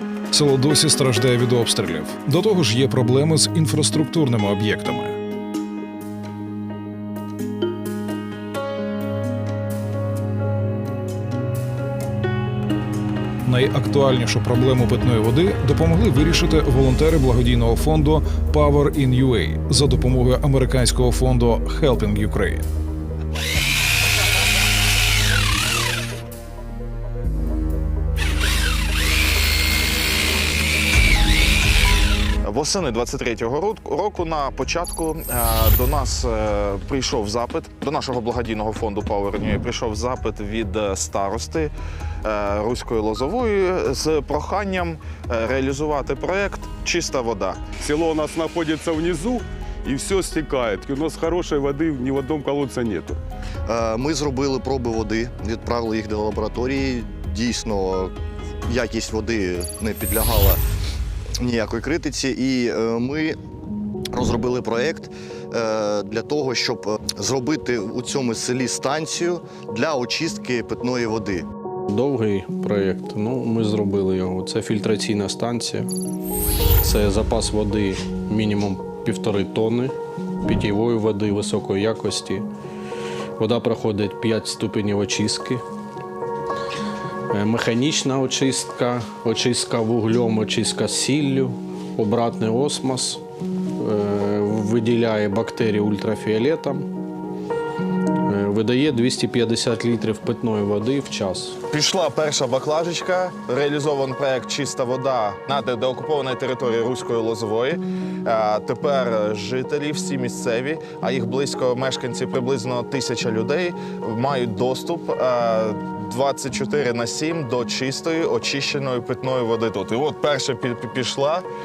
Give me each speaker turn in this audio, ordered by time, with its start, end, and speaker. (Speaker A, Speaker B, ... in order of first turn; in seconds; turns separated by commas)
Speaker A: 0.3-5.2, Speaker A: 13.5-22.7, Speaker B: 32.4-41.7, Speaker B: 42.2-47.6, Speaker C: 47.8-53.2, Speaker D: 53.7-58.1, Speaker D: 58.7-60.6, Speaker D: 61.4-63.4, Speaker D: 64.1-71.5, Speaker E: 71.9-75.9, Speaker E: 76.8-82.5, Speaker E: 83.4-85.6, Speaker E: 87.3-93.2, Speaker E: 93.8-96.8, Speaker E: 98.2-101.6, Speaker B: 101.7-121.5